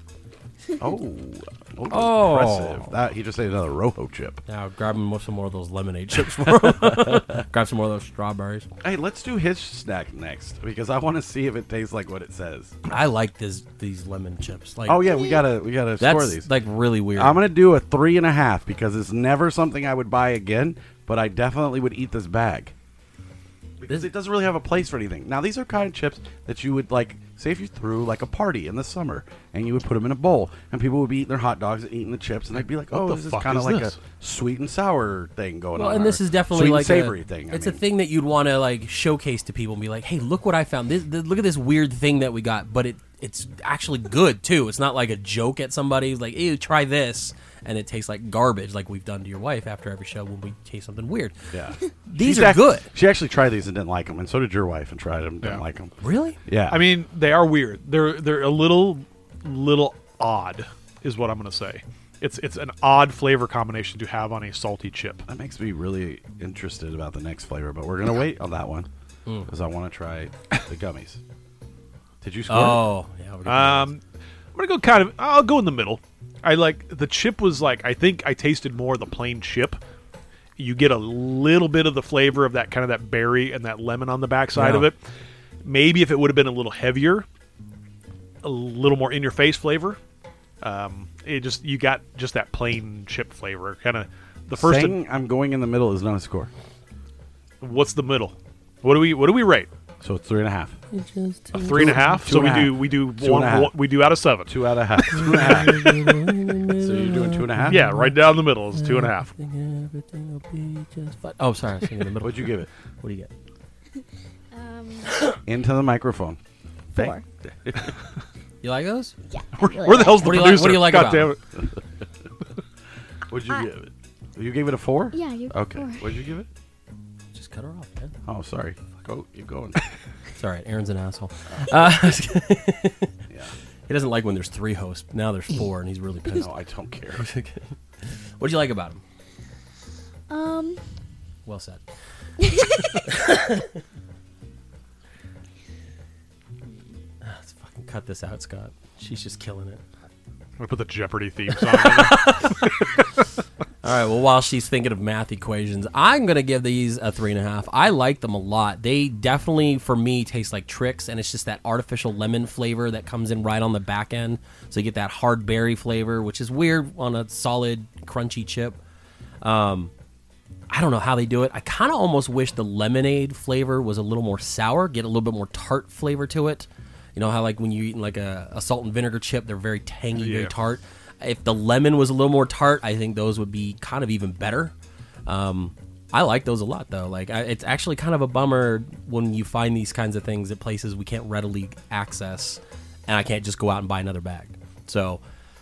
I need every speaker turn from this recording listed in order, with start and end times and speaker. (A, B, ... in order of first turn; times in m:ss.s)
0:00.8-0:04.4 A
0:01.9-0:02.9 B
0:04.4-0:08.7 B
0:06.4-0:07.4 A
0:08.8-0:12.8 A
0:12.8-0:15.1 B
0:14.8-0:16.5 A
0:15.0-0:15.4 C
0:16.0-0:17.4 B
0:17.2-0:22.7 A
0:23.8-0:37.8 A
0:32.9-0:34.0 D
0:35.8-0:51.3 B
0:51.5-0:55.9 A
0:52.1-0:52.9 B
0:56.0-0:56.4 B
0:56.4-0:56.8 A
0:56.7-1:05.2 D
1:05.2-1:08.9 A
1:09.5-1:11.2 A
1:12.2-1:12.9 A
1:12.5-1:13.9 B
1:13.4-1:14.0 D
1:14.5-1:19.8 D
1:20.6-1:25.0 D
1:24.5-1:24.9 B
1:25.6-1:27.2 D
1:28.4-1:30.0 D
1:30.6-1:35.0 D
1:34.6-1:36.5 A
1:37.6-1:39.7 D
1:40.0-1:40.8 A
1:40.9-1:42.3 B
1:41.5-1:44.5 D
1:41.7-1:43.7 A
1:44.4-1:46.0 A
1:45.1-1:48.1 B
1:46.8-1:47.9 A
1:47.7-1:49.3 D
1:48.8-1:53.3 B
1:52.2-1:52.7 A
1:54.5-1:55.2 C
1:55.4-1:56.4 A
1:56.9-1:57.9 A
1:57.0-1:57.2 C
1:58.6-1:59.1 B
1:59.3-2:00.4 C
1:59.6-2:01.4 D
2:00.0-2:01.3 B
2:03.3-2:06.5 A
2:05.1-2:06.1 C
2:07.3-2:08.1 B
2:08.2-2:09.8 A
2:10.4-2:13.1 B
2:13.9-2:16.5 B
2:16.3-2:17.2 A
2:17.2-2:17.6 B
2:18.4-2:19.0 B
2:20.3-2:20.8 C
2:21.4-2:21.8 B
2:22.4-2:23.0 C
2:23.0-2:23.8 B
2:27.2-2:29.8 B
2:30.6-2:33.0 D
2:31.5-2:32.9 B
2:33.8-2:48.8 B
2:49.4-2:49.9 B
2:50.7-3:04.7 B
3:00.2-3:00.5 D
3:05.2-3:15.2 B